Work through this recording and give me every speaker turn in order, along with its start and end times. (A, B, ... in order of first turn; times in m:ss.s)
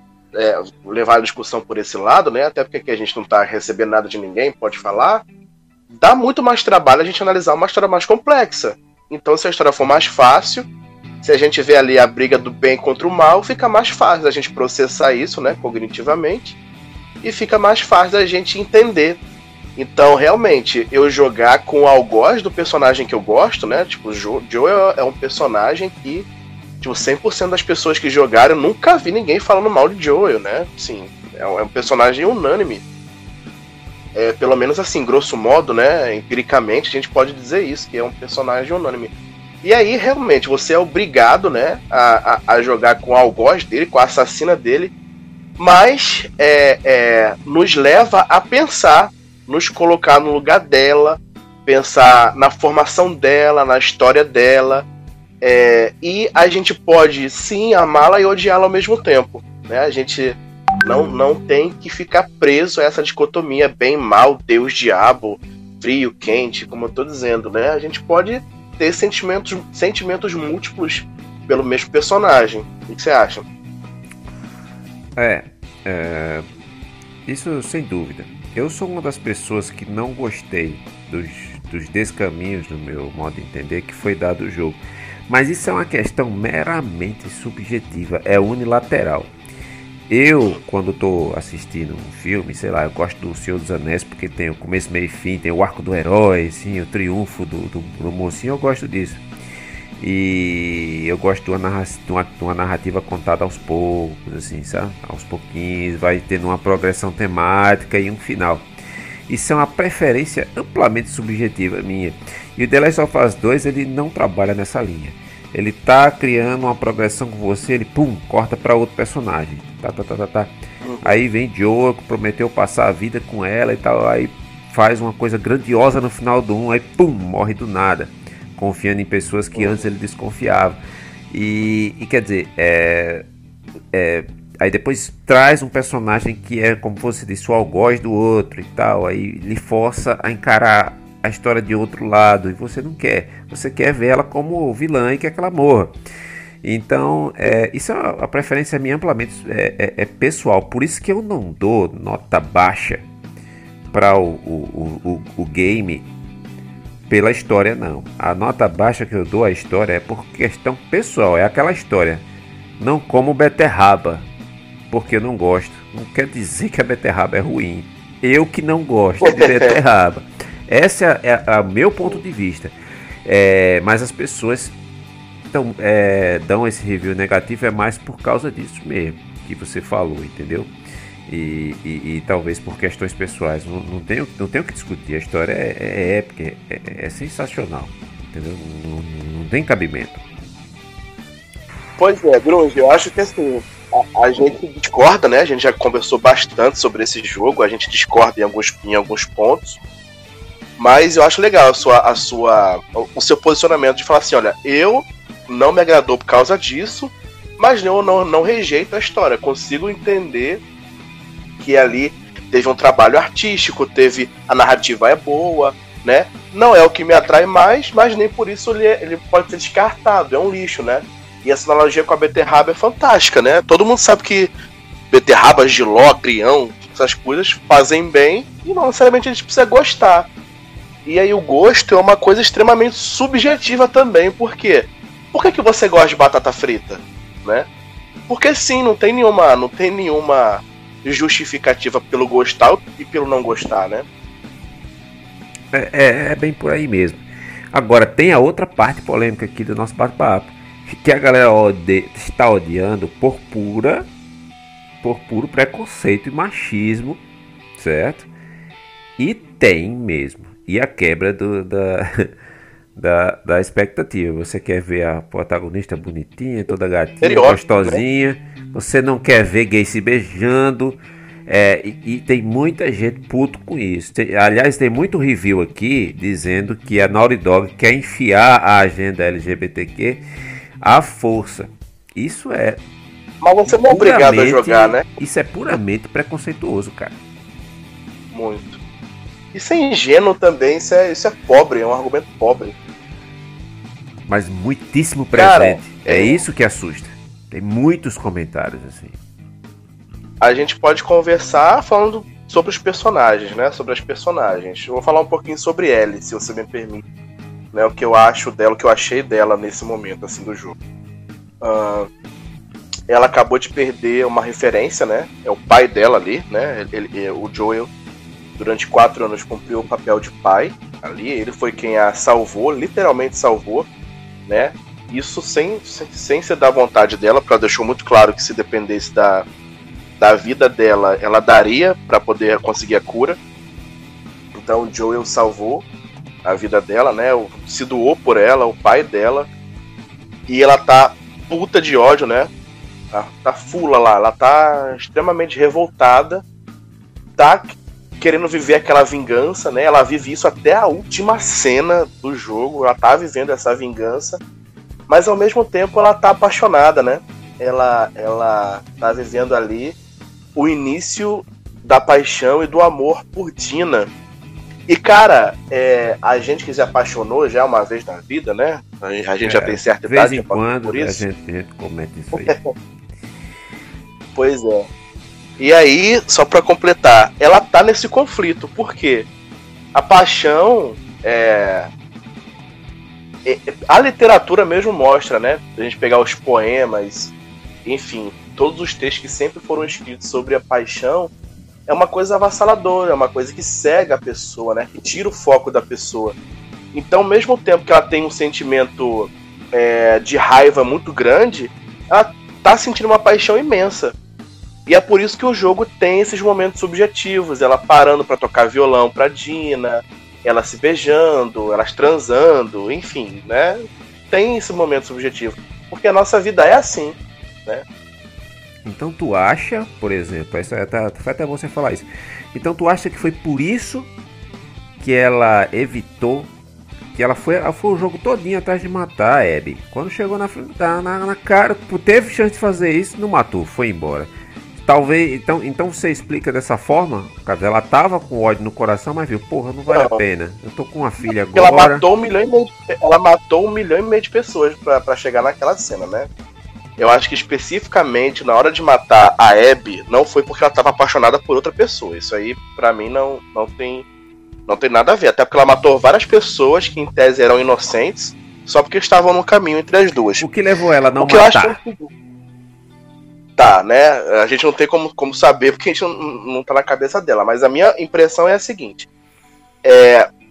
0:00.4-0:05.2 A
0:05.9-0:10.7 A
0:11.2-0:16.6 A
0:17.2-0:19.2 A
0:19.8-0:26.3 A
0:26.8-0:32.8 A
0:34.2-0:39.1 A
0:39.6-0:44.9 A
0:45.6-0:54.8 A
0:55.4-1:13.4 A
1:15.2-1:16.4 B
1:17.3-1:29.3 B
1:30.1-1:39.2 B
1:40.0-1:48.7 B
1:49.3-2:10.8 B
2:00.8-2:01.2 A
2:09.6-2:09.8 A
2:11.3-2:13.3 B
2:13.9-2:25.9 B
2:26.6-2:33.1 B
2:33.9-2:36.1 B
2:37.1-2:42.2 B
2:42.8-2:44.3 B
2:44.9-2:52.7 B
2:49.2-2:49.8 A
2:53.2-2:54.8 B
2:55.5-3:00.7 B
3:01.3-3:10.2 B
3:12.0-3:19.8 A
3:20.8-3:30.6 A
3:31.6-3:44.5 A
3:45.1-3:50.3 A
3:51.1-3:57.7 A
3:58.3-4:04.1 A
4:05.7-4:14.1 B
4:15.0-4:17.2 B
4:17.8-4:18.3 B
4:19.2-4:22.3 B
4:23.0-4:40.2 B
4:27.2-4:28.0 A
4:40.8-4:42.8 B
4:43.4-4:45.1 A
4:43.7-4:47.2 B
4:48.3-4:48.8 A
4:49.5-4:52.7 A
4:54.3-4:59.2 B
4:55.3-4:56.4 A
5:00.4-5:07.0 A
5:07.7-5:10.8 A
5:11.6-5:12.1 A
5:13.1-5:17.9 A
5:18.6-5:23.9 A
5:24.5-5:29.5 A
5:30.2-5:33.4 A
5:34.5-5:35.8 A
5:36.4-5:39.5 A
5:40.5-5:42.5 A
5:43.1-5:46.4 A
5:47.4-5:54.4 A
5:55.1-6:00.0 A
6:00.6-6:04.1 A
6:04.9-6:11.2 A
6:09.4-6:12.6 B
6:12.3-6:12.7 A
6:14.4-6:14.9 A
6:15.6-6:19.3 A
6:19.9-6:21.9 A
6:23.4-6:27.3 A
6:27.8-6:31.3 A
6:31.9-6:36.4 A
6:36.9-6:44.2 A
6:44.9-6:53.8 A
6:54.3-6:57.8 A
6:58.8-7:04.1 B
7:05.0-7:06.5 B
7:07.2-7:22.0 B
7:19.9-7:20.2 A
7:21.6-7:26.3 A
7:27.0-7:34.1 A
7:34.7-7:40.5 A
7:40.4-7:41.8 B
7:41.2-7:42.1 A
7:43.6-7:49.1 A
7:49.8-7:50.3 A